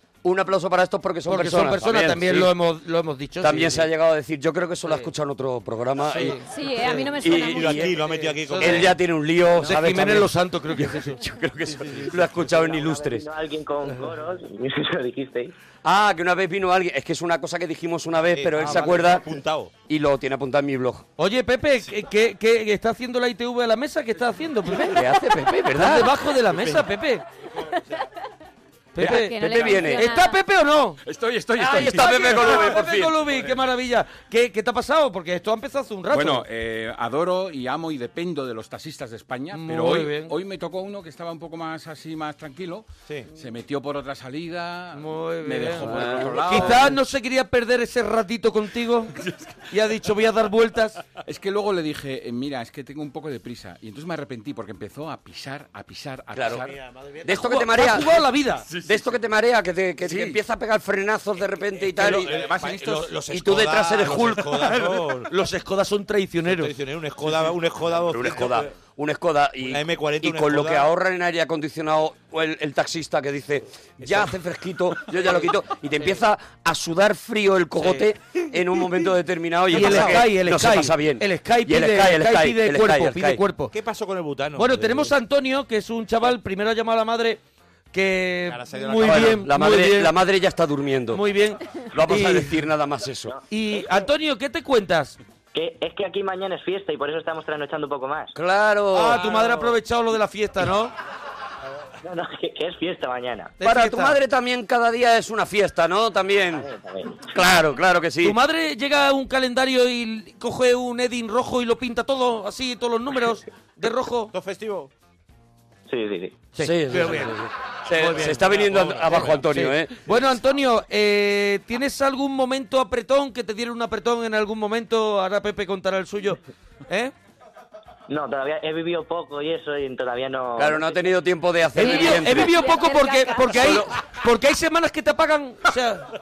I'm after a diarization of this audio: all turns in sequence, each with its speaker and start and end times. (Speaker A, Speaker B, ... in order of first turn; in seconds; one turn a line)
Speaker A: 0.2-2.5
Speaker B: 1.2-3.9
Speaker A: 3.4-6.4
Speaker B: 6.0-6.4
Speaker C: 6.4-7.9
Speaker D: 6.9-9.0
Speaker A: 7.2-8.0
Speaker B: 7.9-8.9
Speaker A: 8.6-13.2
Speaker B: 9.6-11.2
Speaker E: 12.4-15.5
Speaker A: 15.8-19.3
Speaker D: 18.3-19.7
Speaker B: 18.6-18.9
Speaker A: 19.9-21.1
Speaker B: 21.2-25.0
Speaker A: 24.8-26.1
Speaker B: 25.7-27.2
Speaker D: 26.5-28.0
Speaker B: 28.9-31.0
Speaker A: 29.0-30.1
Speaker C: 29.0-30.4
Speaker F: 31.1-32.4
Speaker A: 31.6-33.2
Speaker B: 31.7-36.5
Speaker D: 33.2-33.6
Speaker F: 36.1-47.0
Speaker B: 39.5-40.4
Speaker B: 44.9-49.2
Speaker A: 45.8-46.8
Speaker B: 49.7-51.0
Speaker F: 51.2-56.7
Speaker A: 56.3-56.7
Speaker B: 57.2-58.7
Speaker A: 57.2-58.2
Speaker A: 58.8-62.4
Speaker D: 61.8-65.3
Speaker B: 62.0-66.7
Speaker A: 63.3-64.5
Speaker D: 66.4-68.7
Speaker A: 67.9-83.4
Speaker D: 69.6-70.9
Speaker D: 74.0-74.3
Speaker B: 77.8-78.0
Speaker B: 79.7-83.7
Speaker D: 79.8-80.2
Speaker D: 83.7-85.1
Speaker B: 84.5-87.4
Speaker B: 87.9-90.1
Speaker D: 88.5-89.5
Speaker A: 89.0-91.2
Speaker B: 91.1-92.6
Speaker A: 91.9-93.3
Speaker B: 93.5-95.2
Speaker E: 95.5-98.3
Speaker A: 98.3-99.3
Speaker B: 98.9-100.9
Speaker E: 102.0-103.5
Speaker B: 103.6-104.2
Speaker A: 103.6-106.7
Speaker E: 106.5-107.3
Speaker A: 107.2-108.4
Speaker B: 108.2-114.3
Speaker D: 114.3-114.9
Speaker E: 115.9-116.4
Speaker B: 116.5-117.4
Speaker A: 116.6-120.2
Speaker B: 117.9-127.1
Speaker D: 118.1-119.4
Speaker E: 128.1-131.1
Speaker A: 130.6-132.6
Speaker B: 131.8-136.1
Speaker C: 131.8-133.6
Speaker A: 133.5-134.0